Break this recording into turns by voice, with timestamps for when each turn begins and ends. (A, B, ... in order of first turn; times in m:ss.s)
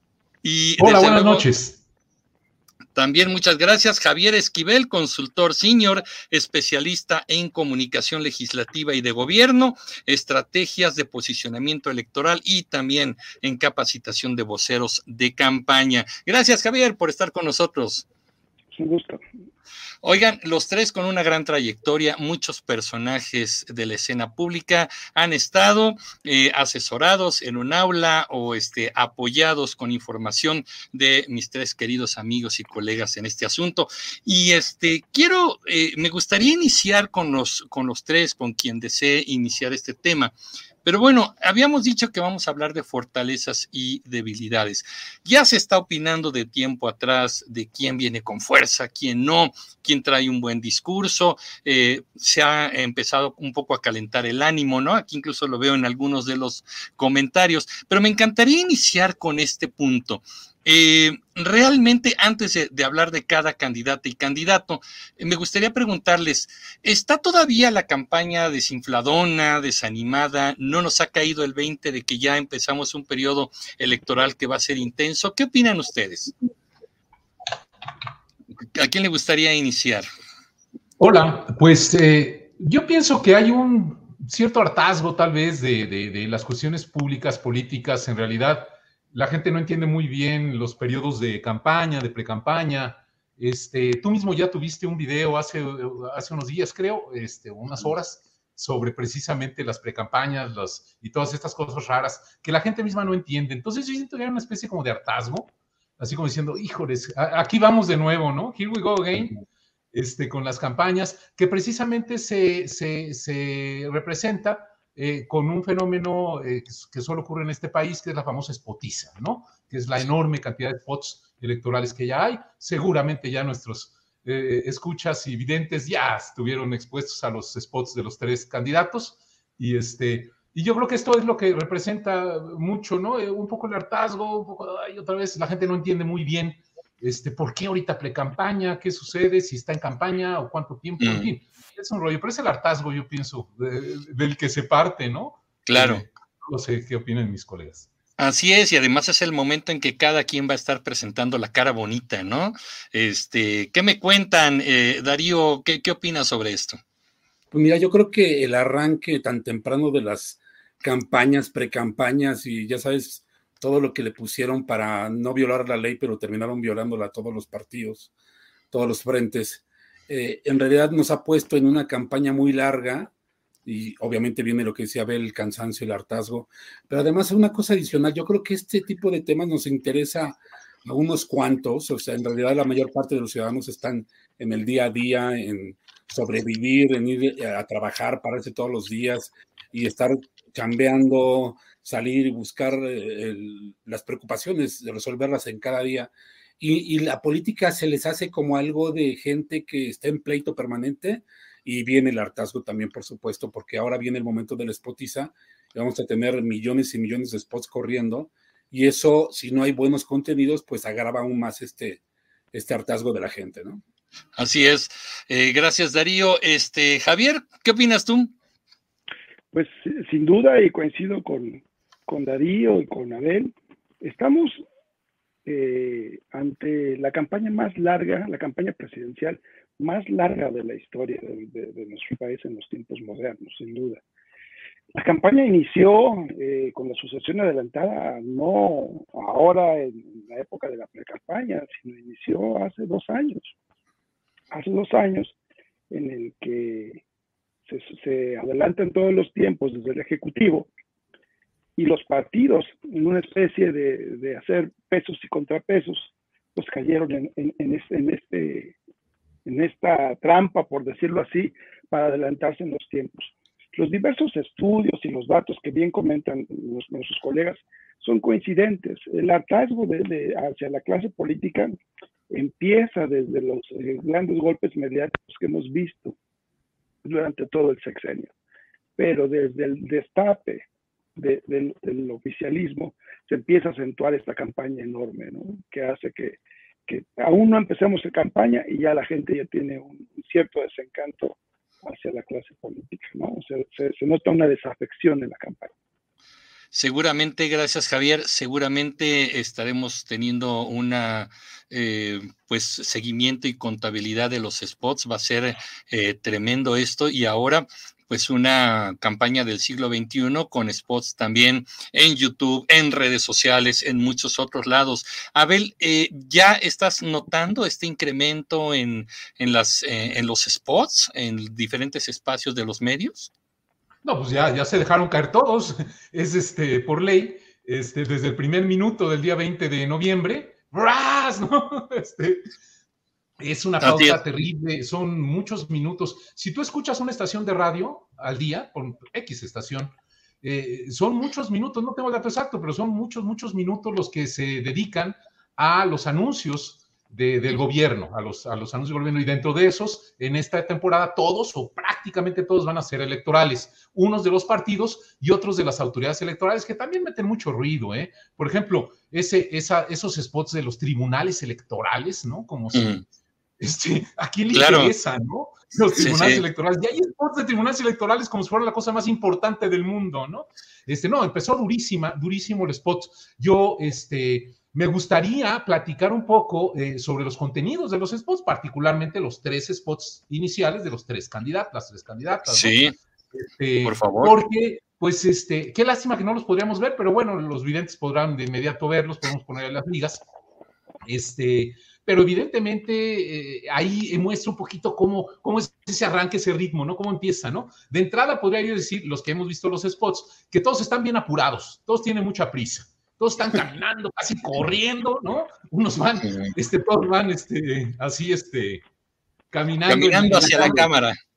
0:00.4-0:01.4 A
0:00.8-0:01.8 B
0:02.9-0:18.0 A
0:18.7-0:19.2 C
0:20.0-0:40.3 A
0:40.8-1:16.3 A
1:18.7-1:20.0 A
1:21.0-1:49.4 B
1:49.9-2:27.9 B
2:21.0-2:21.3 A
2:25.6-2:26.0 A
2:28.2-2:36.8 A
2:37.5-2:48.1 D
2:48.7-2:53.1 D
2:53.6-3:32.0 D
3:32.5-3:33.8 D
3:34.4-3:38.3 A
3:39.5-3:44.6 C
3:45.4-3:54.0 C
3:54.9-4:03.5 C
4:04.5-4:05.3 C
4:05.9-4:07.0 C
4:07.7-4:10.7 C
4:11.8-4:18.7 C
4:19.4-4:31.7 C
4:32.3-4:36.2 C
4:37.0-4:38.3 C
4:39.0-4:40.6 C
4:41.2-4:55.7 C
4:56.7-5:23.3 A
5:24.0-5:32.5 B
5:33.4-6:02.9 B
5:33.8-5:34.2 A
6:02.7-6:03.0 A
6:03.6-6:22.8 B
6:04.5-6:04.9 A
6:06.0-6:06.4 A
6:22.4-6:22.9 A
6:23.3-6:30.2 B
6:23.8-6:24.3 A
6:31.0-6:48.8 B
6:46.2-6:46.5 A
6:49.5-6:50.9 B
6:49.9-6:51.2 A